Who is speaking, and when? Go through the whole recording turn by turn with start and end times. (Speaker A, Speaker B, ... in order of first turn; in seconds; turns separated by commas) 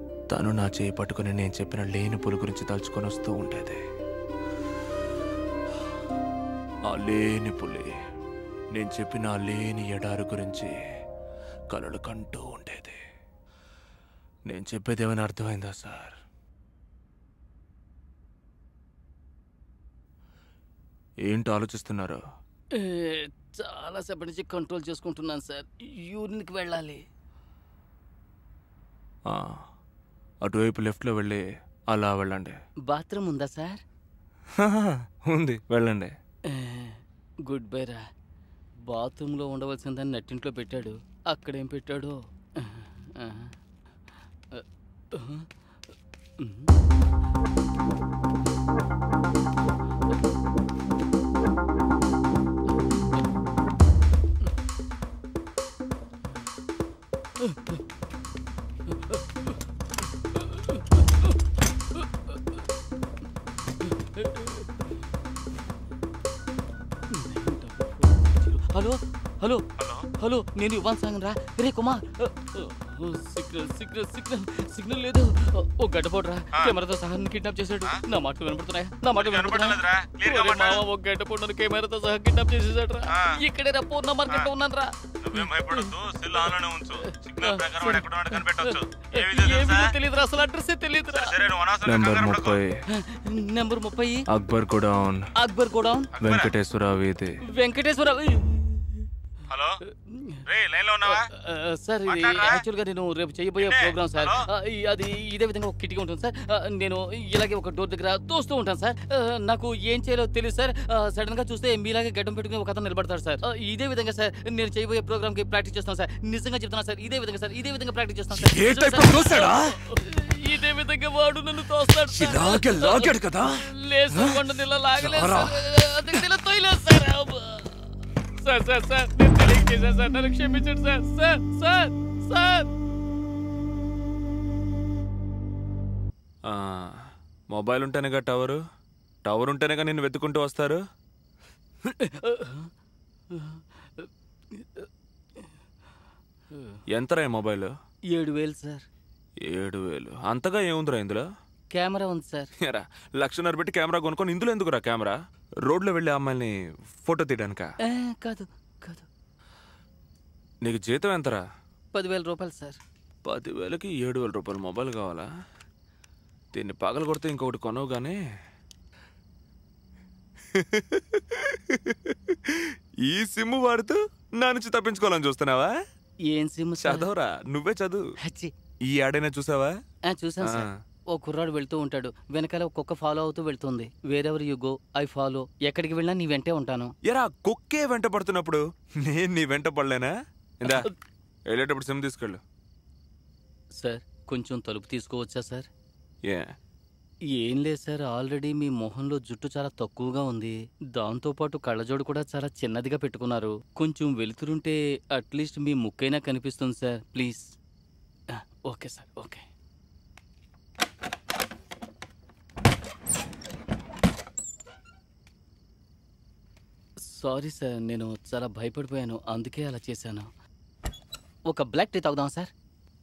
Speaker A: 0.3-3.8, Speaker A: 6.9-7.9, Speaker A: 8.7-10.8, Speaker A: 11.7-13.0, Speaker A: 14.5-16.2, Speaker A: 21.3-22.2, Speaker B: 22.8-27.0, Speaker A: 29.3-29.6, Speaker A: 30.4-32.6, Speaker B: 32.9-33.8, Speaker A: 34.5-36.1, Speaker B: 36.5-38.0, Speaker B: 38.9-43.5, Speaker B: 44.5-45.5, Speaker B: 46.4-46.7, Speaker B: 57.4-57.8, Speaker B: 58.9-59.5, Speaker B: 60.3-61.3, Speaker B: 61.9-62.4, Speaker B: 63.8-64.8, Speaker B: 67.1-91.4, Speaker C: 69.8-70.1, Speaker C: 79.2-80.8, Speaker C: 83.1-83.4, Speaker C: 85.2-89.9, Speaker C: 91.1-92.6, Speaker A: 91.8-92.8, Speaker B: 92.9-94.2, Speaker A: 94.3-95.3, Speaker B: 95.4-96.1, Speaker C: 96.2-96.5, Speaker A: 96.2-97.4, Speaker B: 97.5-99.1, Speaker C: 99.5-99.8, Speaker B: 99.8-100.5, Speaker C: 100.5-101.3, Speaker B: 101.0-132.7, Speaker C: 102.1-102.6, Speaker C: 103.6-104.5, Speaker A: 118.4-119.8, Speaker A: 122.1-126.2, Speaker A: 136.5-137.0, Speaker A: 137.5-138.6, Speaker A: 139.2-140.8, Speaker B: 141.8-142.7, Speaker B: 143.3-144.9, Speaker B: 146.5-146.8, Speaker A: 146.9-147.7, Speaker B: 148.1-148.8, Speaker A: 149.5-151.3, Speaker B: 151.7-152.5, Speaker A: 152.6-155.2, Speaker A: 155.7-157.7, Speaker B: 157.8-159.1, Speaker A: 160.6-161.4, Speaker B: 161.9-162.8, Speaker A: 163.2-165.3, Speaker A: 166.5-168.2, Speaker A: 170.5-175.7, Speaker B: 176.3-177.1, Speaker A: 176.8-178.0, Speaker B: 178.2-178.5, Speaker A: 178.9-179.7, Speaker B: 180.1-186.9, Speaker A: 187.1-190.8, Speaker B: 190.6-190.9, Speaker A: 191.5-192.4, Speaker B: 193.8-195.7, Speaker B: 197.3-207.5, Speaker B: 208.3-209.5, Speaker B: 217.0-220.3, Speaker B: 221.5-222.5